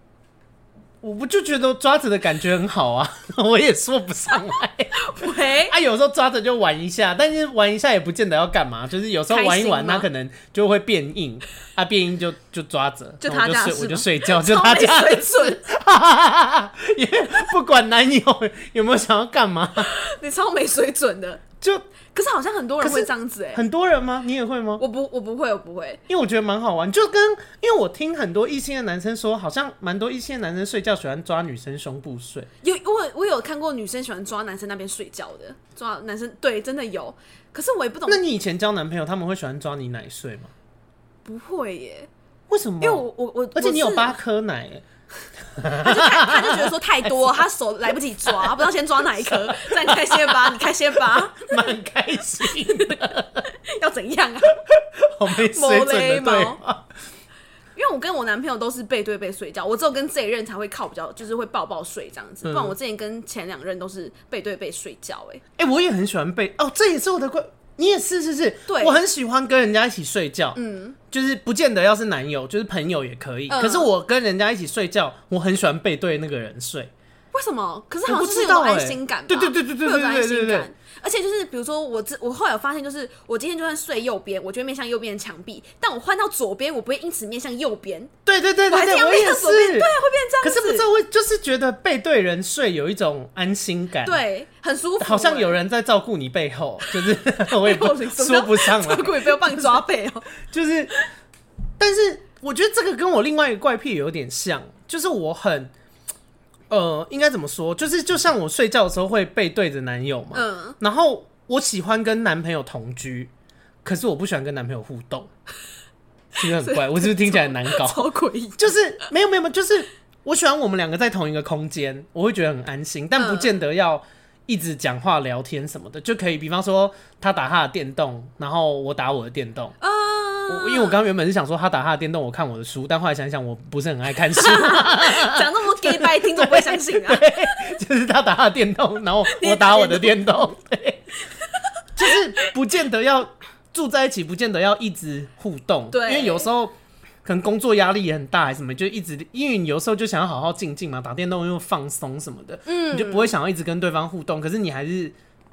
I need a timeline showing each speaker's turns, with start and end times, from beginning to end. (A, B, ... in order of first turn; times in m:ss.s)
0:01.0-0:05.0 A
0:05.0-0:05.8 B
0:05.6-0:19.9 A
0:09.3-0:10.1 B
0:13.2-0:15.6 B
0:19.8-0:21.4 B
0:22.1-0:23.6 B
0:22.8-0:24.8 A
0:24.8-0:26.0 B
0:26.1-0:32.5 A
0:32.6-0:38.2 B
0:38.1-0:40.5 A
0:41.2-0:42.1 B
0:42.5-0:44.8 A
0:42.8-0:44.2 B
0:45.6-0:47.4 A
0:45.8-0:51.8 B
0:49.0-0:50.5 A
0:51.1-0:53.4 A
0:52.4-0:54.6 B
0:54.7-0:56.9 A
0:55.3-0:56.6 B
0:57.8-1:05.4 B
1:02.4-1:02.7 A
1:05.6-1:10.6 A
1:08.7-1:09.0 B
1:10.5-1:11.0 B
1:11.1-1:16.9 A
1:13.5-1:13.9 B
1:17.3-1:28.1 B
1:18.1-1:20.7 A
1:28.2-1:34.2 A
1:28.7-1:30.9 B
1:34.0-1:35.6 B
1:35.0-1:39.8 A
1:36.9-1:40.3 B
1:40.5-1:41.0 A
1:41.8-1:45.7 A
1:46.7-1:53.3 A
1:50.3-1:50.8 B
1:53.8-1:55.3 A
1:56.4-2:09.8 A
1:56.4-1:58.7 B
2:03.2-2:03.5 B
2:09.8-2:11.0 B
2:10.5-2:21.0 A
2:14.3-2:17.6 B
2:19.3-2:20.3 B
2:21.5-2:22.1 B
2:22.0-2:35.1 A
2:25.9-2:26.5 B
2:32.6-2:33.3 B